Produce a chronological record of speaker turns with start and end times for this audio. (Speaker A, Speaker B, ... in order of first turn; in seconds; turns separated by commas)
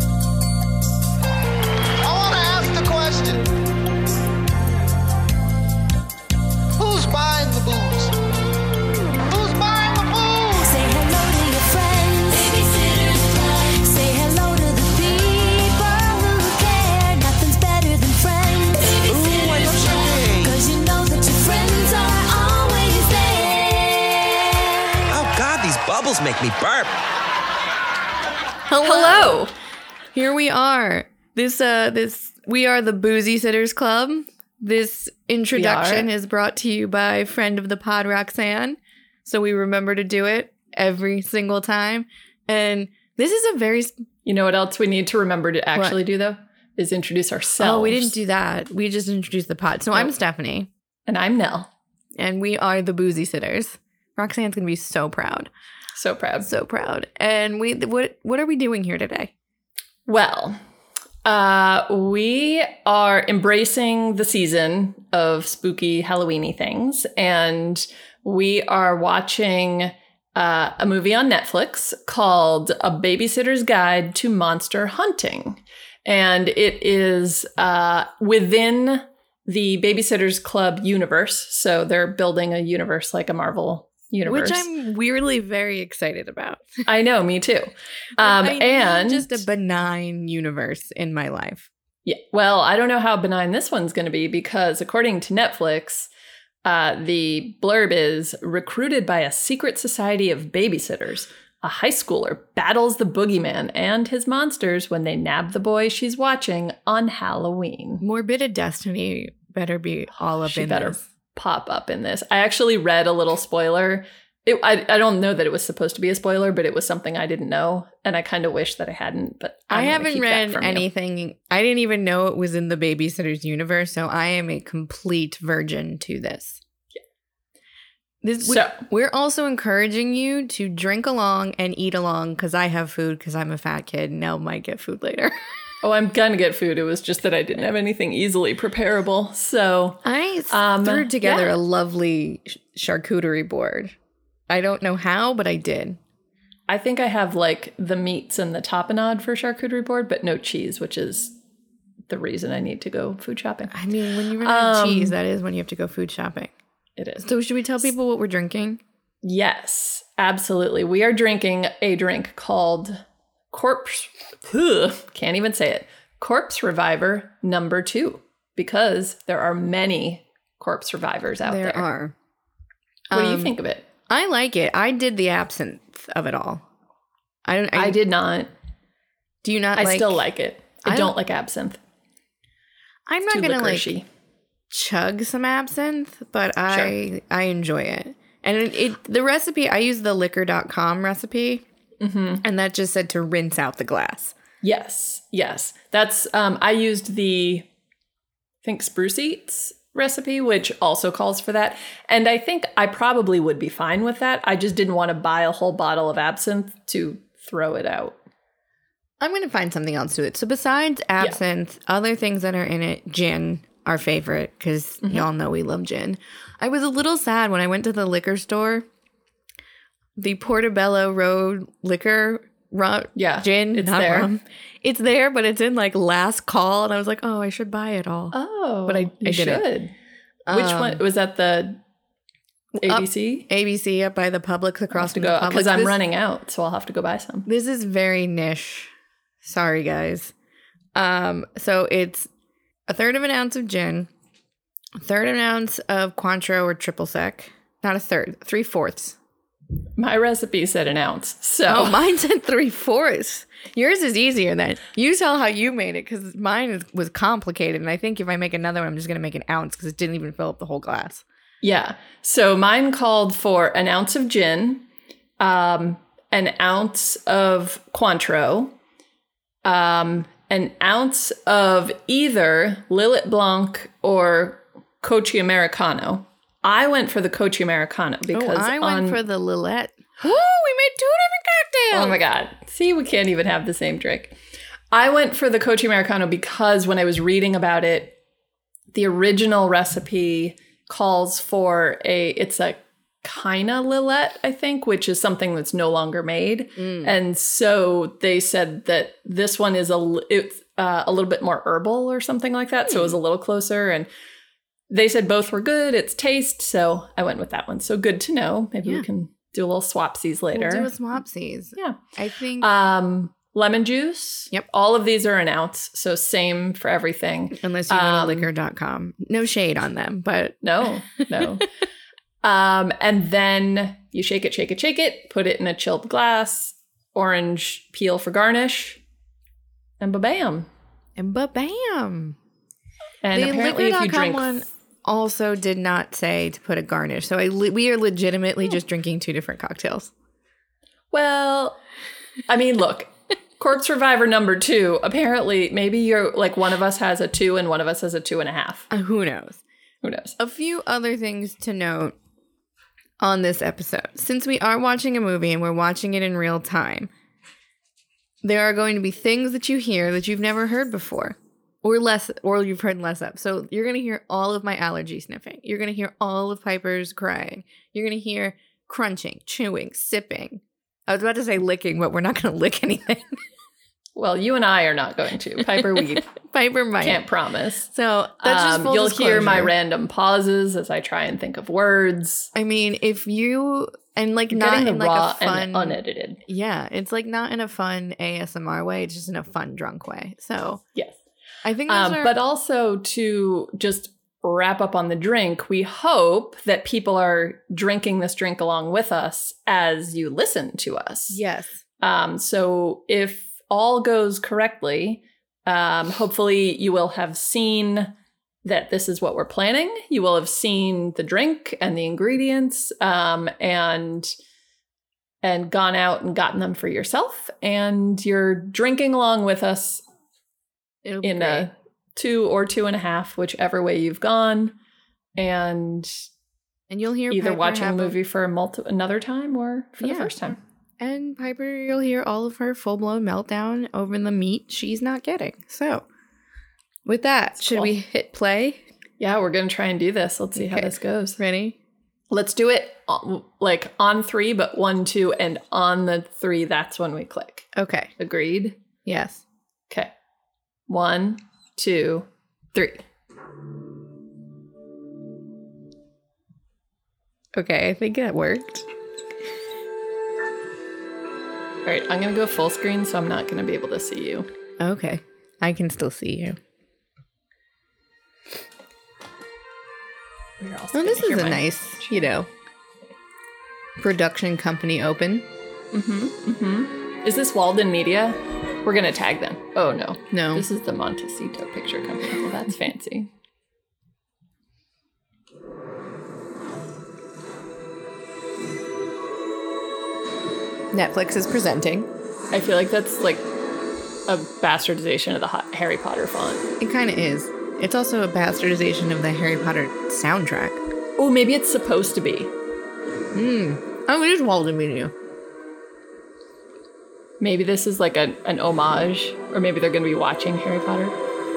Speaker A: 2.0-3.5, Speaker A: 6.8-8.1, Speaker A: 9.3-10.7, Speaker B: 10.5-24.5, Speaker C: 19.1-20.6, Speaker C: 25.1-27.0, Speaker D: 28.7-29.5, Speaker E: 28.8-29.5, Speaker D: 30.1-44.0, Speaker E: 35.5-36.1, Speaker E: 44.2-48.1, Speaker D: 47.6-50.7, Speaker E: 51.1-51.7, Speaker D: 52.2-55.5, Speaker E: 56.0-56.5, Speaker D: 56.4-59.3, Speaker E: 60.1-60.6, Speaker E: 61.2-84.7, Speaker D: 84.2-86.7, Speaker E: 86.9-89.4, Speaker D: 88.2-91.7, Speaker E: 92.1-96.1, Speaker E: 96.6-108.0, Speaker D: 108.0-111.0, Speaker E: 110.4-120.9, Speaker D: 119.7-126.6, Speaker D: 128.2-135.3, Speaker E: 128.4-128.8, Speaker E: 135.8-141.5, Speaker D: 140.0-143.9, Speaker D: 144.5-146.0, Speaker E: 146.7-151.3, Speaker E: 152.1-153.8, Speaker D: 153.7-156.5, Speaker E: 154.4-155.2, Speaker E: 157.0-157.9, Speaker D: 157.2-158.8, Speaker E: 159.2-171.8, Speaker D: 171.4-172.1, Speaker D: 173.1-173.5, Speaker E: 173.1-173.9, Speaker D: 174.1-176.6, Speaker D: 177.4-178.0, Speaker E: 177.7-178.5, Speaker D: 179.4-180.3, Speaker E: 179.8-181.8, Speaker D: 180.8-181.2, Speaker D: 183.1-183.9, Speaker E: 183.2-184.1, Speaker D: 184.7-191.7, Speaker E: 192.0-192.4, Speaker D: 192.4-194.3, Speaker E: 194.6-197.7, Speaker E: 198.6-208.2, Speaker D: 209.2-218.8, Speaker E: 215.0-215.3, Speaker D: 220.2-229.7, Speaker E: 223.2-224.3, Speaker E: 228.3-229.9, Speaker D: 230.5-231.0, Speaker E: 230.5-231.8, Speaker D: 232.8-236.0, Speaker E: 232.8-233.5, Speaker E: 234.9-237.5, Speaker D: 237.5-238.9, Speaker D: 239.4-240.3, Speaker D: 240.9-242.3, Speaker D: 242.9-244.1, Speaker D: 245.0-249.2, Speaker E: 250.0-252.0, Speaker D: 251.7-261.2, Speaker E: 261.6-264.9, Speaker E: 265.4-268.8, Speaker E: 269.6-279.2, Speaker D: 278.3-282.2, Speaker E: 281.9-284.4, Speaker E: 284.9-288.2, Speaker E: 288.9-304.1, Speaker D: 296.8-297.1, Speaker D: 302.9-303.2, Speaker E: 304.9-310.9, Speaker D: 310.5-312.7, Speaker E: 312.6-318.5, Speaker D: 317.5-320.6, Speaker E: 320.6-321.7, Speaker D: 321.2-321.5, Speaker E: 322.4-329.0, Speaker E: 330.0-330.7, Speaker D: 331.2-332.4, Speaker E: 333.2-334.5, Speaker D: 333.3-340.1, Speaker E: 341.1-341.8, Speaker E: 342.5-348.9, Speaker D: 348.9-349.6, Speaker E: 350.0-350.4, Speaker D: 350.4-352.1, Speaker D: 353.2-357.1, Speaker D: 358.4-373.4, Speaker E: 374.1-376.3, Speaker D: 375.6-377.3, Speaker E: 377.0-377.9, Speaker D: 377.9-379.7, Speaker E: 378.4-382.5, Speaker D: 382.5-390.8, Speaker E: 384.5-386.4, Speaker D: 391.6-392.4, Speaker E: 391.9-401.4, Speaker D: 401.3-401.8, Speaker E: 402.0-408.1, Speaker E: 408.6-414.4, Speaker E: 415.4-420.0, Speaker D: 421.0-421.7, Speaker E: 421.2-424.8, Speaker E: 425.4-426.2, Speaker D: 426.9-428.2, Speaker E: 427.3-430.6, Speaker D: 430.0-436.1, Speaker D: 437.1-438.8, Speaker E: 437.6-437.9, Speaker E: 439.2-441.4, Speaker D: 440.6-441.8, Speaker E: 442.3-447.7, Speaker D: 447.8-448.1, Speaker E: 448.2-448.8, Speaker D: 449.1-449.4, Speaker E: 450.9-453.0, Speaker D: 457.6-458.9, Speaker E: 461.9-464.5, Speaker D: 464.8-466.6, Speaker E: 470.6-472.4, Speaker D: 470.9-472.5, Speaker D: 474.0-475.5, Speaker E: 475.9-483.3, Speaker D: 480.3-480.6, Speaker D: 490.9-492.1, Speaker E: 492.5-493.5, Speaker E: 494.3-496.6, Speaker D: 496.8-500.8, Speaker E: 501.2-502.5, Speaker D: 503.3-505.1, Speaker E: 507.4-511.2